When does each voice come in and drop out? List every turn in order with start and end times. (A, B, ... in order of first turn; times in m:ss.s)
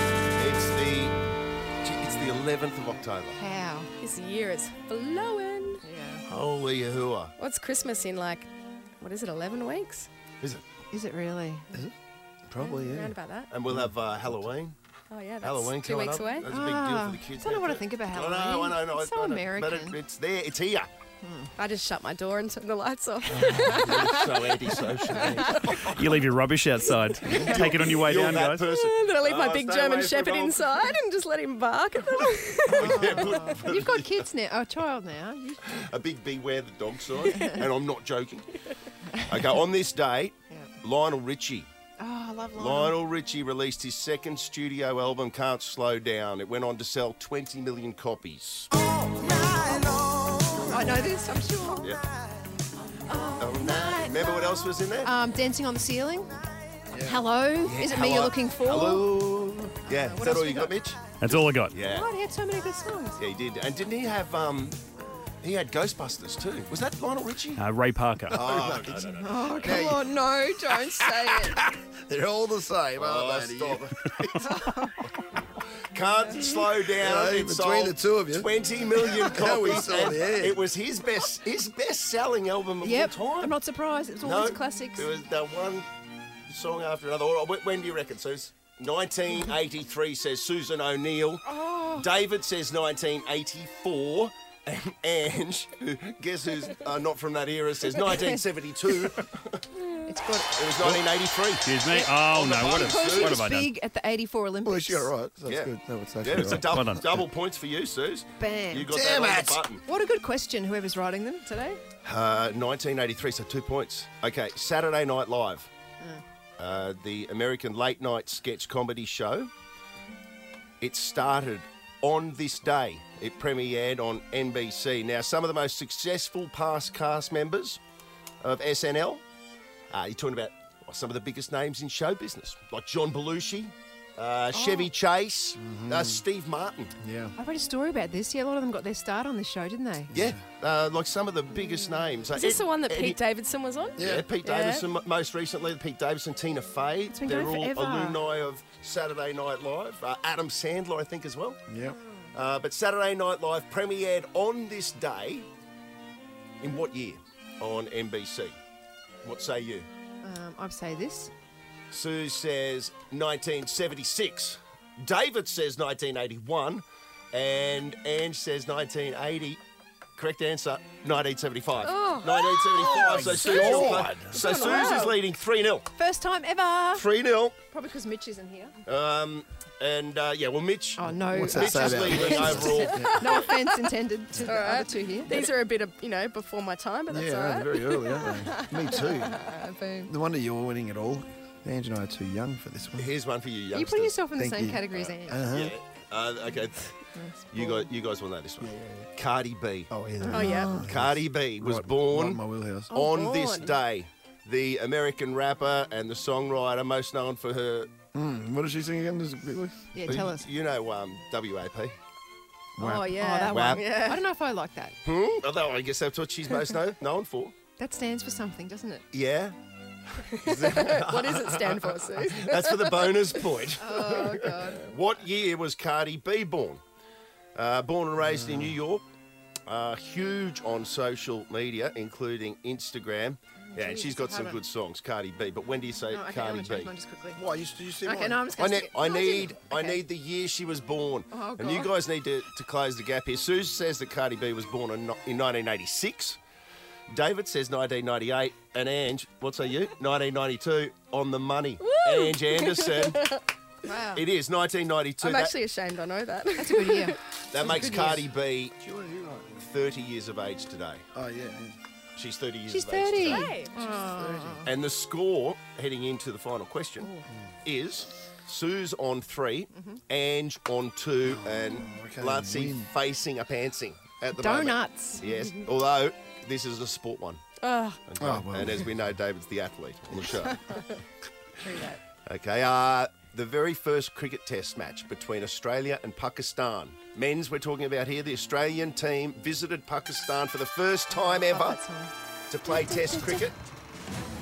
0:00.4-0:01.2 A
0:01.8-0:03.4 A
0:03.4-0:03.9 B
0:04.0-0:05.8 C
0:05.8-0:06.2 B
0:06.3-0:07.3 A
0:07.4-0:08.5 C
0:09.0-0:10.1 C
0:10.9-0:11.7 B
0:12.5-0:13.1 D
0:12.7-0:13.5 C
0:13.5-0:14.8 A
0:13.7-0:14.5 D
0:15.1-0:16.5 C
0:15.4-0:20.9 A
0:16.5-0:20.0 B
0:21.2-0:21.5 B
0:21.6-0:25.8 C
0:23.4-0:26.2 A
0:25.9-0:28.7 E
0:27.2-0:27.9 C
0:27.3-0:30.8 A
0:28.6-0:33.4 C
0:32.7-0:34.3 A
0:32.8-0:35.6 B
0:35.6-0:38.6 A
0:37.3-0:37.6 C
0:39.3-0:41.7 A
0:42.0-0:43.0 B
0:42.6-0:48.7 A
0:48.8-0:50.0 B
0:50.0-0:50.8 A
0:50.6-0:52.0 B
0:53.1-0:56.4 B
0:53.4-0:55.2 A
0:56.9-0:57.2 D
0:57.0-0:59.1 B
0:57.6-1:02.1 A
0:59.8-1:00.8 B
1:01.2-1:01.8 E
1:01.9-1:03.2 B
1:03.2-1:04.8 A
1:05.4-1:07.6 A
1:07.6-1:08.4 E
1:08.3-1:10.1 A
1:08.3-1:09.1 D
1:09.2-1:11.6 B
1:11.2-1:14.3 D
1:13.0-1:13.9 A
1:14.4-1:15.0 B
1:15.9-1:23.6 A
1:16.9-1:20.6 D
1:22.8-1:25.1 B
1:24.2-1:25.9 A
1:26.5-1:39.7 A
1:31.5-1:32.1 B
1:40.0-1:40.6 B
1:40.6-1:43.5 A
1:41.6-1:43.7 E
1:42.6-1:45.1 B
1:44.6-1:46.8 D
1:45.5-1:49.8 A
1:46.3-1:47.2 E
1:48.4-1:49.0 B
1:48.9-1:49.6 D
1:49.8-1:51.8 B
1:52.0-1:55.7 A
1:56.6-1:59.5 A
2:00.8-2:07.8 A
2:08.4-2:09.2 A
2:09.9-2:16.9 A
2:14.5-2:14.9 B
2:15.6-2:16.2 D
2:17.0-2:17.4 D
2:17.4-2:20.1 B
2:20.1-2:20.4 D
2:20.1-2:23.2 A
2:22.3-2:24.9 C
2:24.0-2:24.3 D
2:24.0-2:31.6 A
2:27.1-2:28.2 B
2:31.7-2:32.0 D
2:32.0-2:32.3 B
2:32.3-2:35.5 A
2:36.6-2:38.6 A
2:39.2-2:39.9 A
2:40.2-2:41.3 B
2:41.9-2:49.6 A
2:50.2-2:55.9 A
2:51.8-2:55.2 C
2:52.7-2:54.7 D
2:54.6-2:55.1 B
2:56.0-2:57.1 B
2:57.0-2:57.6 A
2:57.7-2:58.7 B
2:58.8-3:03.1 A
3:01.0-3:05.5 B
3:01.2-3:03.3 D
3:02.6-3:03.7 C
3:04.4-3:10.1 C
3:07.1-3:09.4 D
3:10.1-3:13.1 D
3:13.0-3:14.2 A
3:13.7-3:15.4 B
3:14.4-3:15.8 D
3:14.9-3:17.0 A
3:17.2-3:17.9 B
3:17.5-3:19.9 A
3:18.6-3:19.1 D
3:19.9-3:22.9 D
3:20.2-3:20.8 B
3:20.3-3:20.8 C
3:20.8-3:27.9 A
3:22.9-3:23.8 C
3:28.1-3:30.2 D
3:29.9-3:30.5 B
3:30.1-3:31.9 A
3:32.8-3:33.2 D
3:32.8-3:35.0 B
3:33.0-3:34.2 C
3:33.5-3:33.9 A
3:35.0-3:37.6 A
3:37.8-3:39.1 B
3:39.1-3:39.6 A
3:40.3-3:46.8 A
3:40.4-3:43.4 C
3:43.8-3:44.9 B
3:47.6-3:49.0 A
3:48.2-3:48.8 D
3:49.7-3:56.9 A
3:53.7-3:54.6 B
3:56.1-3:57.4 B
3:57.4-3:58.5 D
3:58.0-4:00.0 B
3:58.5-4:06.4 A
4:01.3-4:01.9 B
4:07.1-4:13.2 A
4:11.8-4:13.4 C
4:13.8-4:14.2 B
4:14.1-4:15.6 A
4:15.2-4:17.2 C
4:16.6-4:18.2 B
4:17.5-4:18.8 A
4:18.8-4:19.6 D
4:19.6-4:21.0 A
4:21.1-4:21.8 D
4:22.2-4:23.4 A
4:22.7-4:24.7 B
4:23.2-4:23.8 C
4:23.8-4:24.7 D
4:24.6-4:37.4 A
4:31.2-4:32.9 D
4:34.4-4:35.2 B
4:37.6-4:38.0 C
4:38.1-4:40.8 A
4:38.2-4:38.9 D
4:40.5-4:41.0 C
4:41.6-4:42.0 C
4:42.3-4:51.8 A
4:51.1-4:52.1 B
4:52.5-4:53.6 A
4:52.7-4:53.4 C